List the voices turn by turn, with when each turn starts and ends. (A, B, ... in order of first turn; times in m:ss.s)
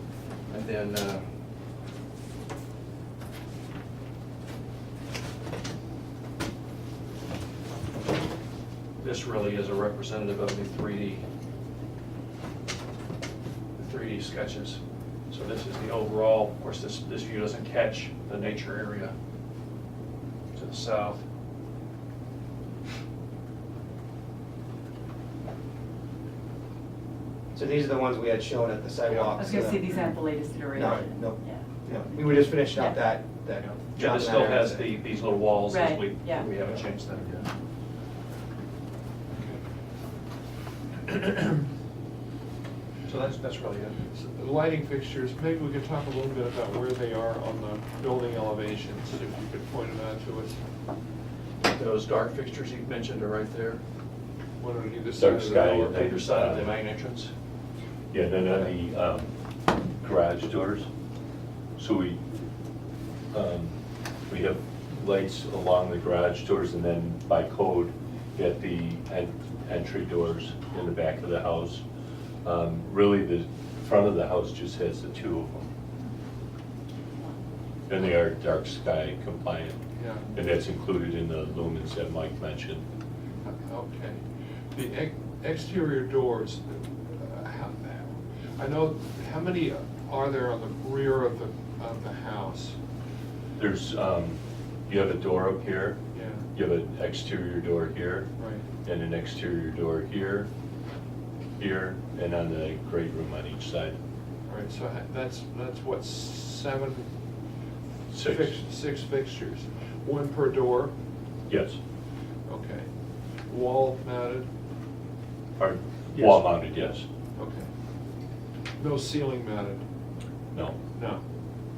0:00.5-0:01.2 A
0:09.0-0:11.2 A
0:13.8-0:19.1 A
0:20.5-0:21.2 A
0:27.5-0:29.8 B
0:29.1-0:29.6 A
0:29.2-0:33.1 C
0:30.8-0:34.9 B
0:33.9-0:37.5 A
0:35.7-0:36.6 C
0:39.3-0:39.6 D
0:41.0-0:41.7 D
0:43.0-0:44.0 A
0:44.1-0:50.6 D
0:51.6-0:53.8 A
0:54.6-0:56.1 D
0:55.2-0:56.8 E
0:55.8-0:57.3 A
0:58.1-0:59.3 E
1:00.0-1:00.9 E
1:01.8-1:02.2 E
1:03.3-1:03.8 E
1:04.3-1:11.8 E
1:12.4-1:15.7 E
1:17.9-1:19.8 E
1:17.9-1:18.2 C
1:19.9-1:20.4 D
1:20.3-1:22.8 E
1:23.4-1:24.2 D
1:24.7-1:32.8 D
1:33.6-1:36.0 E
1:36.1-1:36.5 D
1:36.5-1:38.3 E
1:38.4-1:38.6 D
1:38.8-1:40.5 E
1:41.6-1:44.0 E
1:44.4-1:47.1 D
1:48.1-1:48.6 E
1:48.1-1:50.9 D
1:51.5-1:51.8 E
1:52.5-1:52.9 D
1:53.5-1:54.5 D
1:55.6-1:57.0 E
1:57.4-1:57.7 D
1:58.8-1:59.8 D
2:00.9-2:01.2 D